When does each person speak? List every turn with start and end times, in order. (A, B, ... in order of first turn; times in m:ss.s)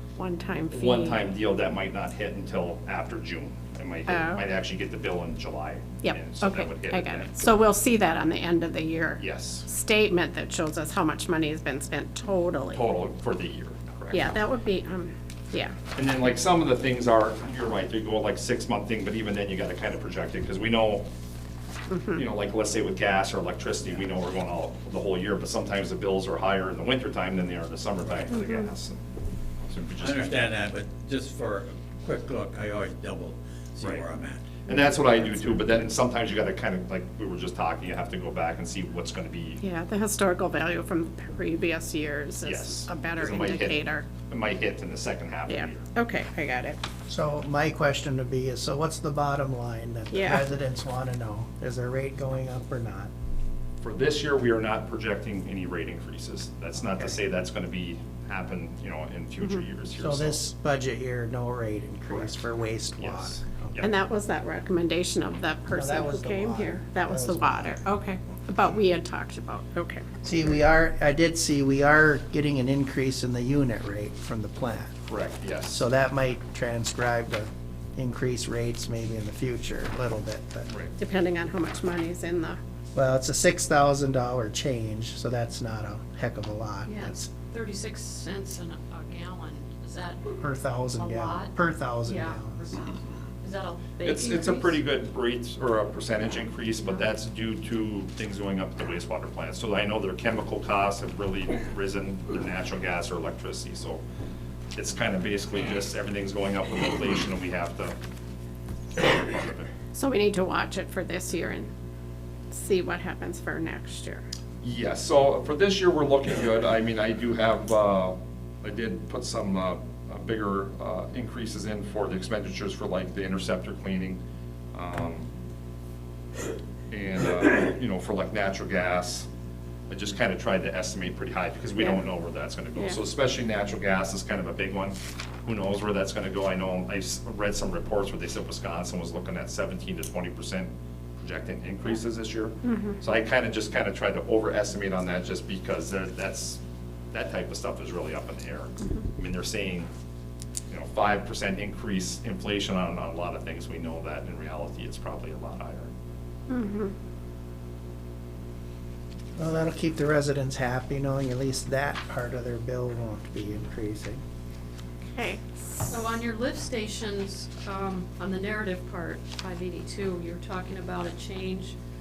0:00.2-0:01.3 A
0:00.7-0:07.5 B
0:04.1-0:04.4 A
0:06.0-0:12.8 A
0:09.2-0:09.7 B
0:12.7-0:14.4 B
0:14.1-0:15.8 A
0:15.9-0:21.1 B
0:21.9-0:22.2 A
0:22.1-0:29.0 B
0:29.7-0:30.4 B
0:30.0-0:34.6 C
0:34.7-0:39.6 B
0:39.6-0:44.1 A
0:42.4-0:45.9 B
0:45.5-0:46.8 A
0:47.1-0:53.1 D
0:50.1-0:50.4 A
0:53.8-1:00.4 B
1:00.0-1:03.9 D
1:03.0-1:03.9 B
1:03.8-1:10.0 A
1:05.8-1:07.8 D
1:10.2-1:14.9 D
1:15.1-1:15.8 B
1:15.7-1:20.7 D
1:20.7-1:20.9 B
1:21.0-1:22.6 A
1:22.9-1:27.3 D
1:26.9-1:30.4 E
1:30.4-1:32.7 D
1:31.0-1:34.8 E
1:34.0-1:44.0 B
1:44.8-1:48.0 B
1:49.0-1:49.7 B
1:49.9-1:51.7 A
1:52.5-1:54.2 A
1:54.6-2:04.2 B
2:04.7-2:05.3 B
2:06.9-2:09.3 B
2:09.9-2:26.6 B
2:22.7-2:23.0 A
2:27.1-2:29.9 B
2:30.7-2:35.9 B
2:36.5-2:36.9 A
2:39.4-2:44.2 D
2:45.1-2:45.8 A
2:45.8-2:51.8 E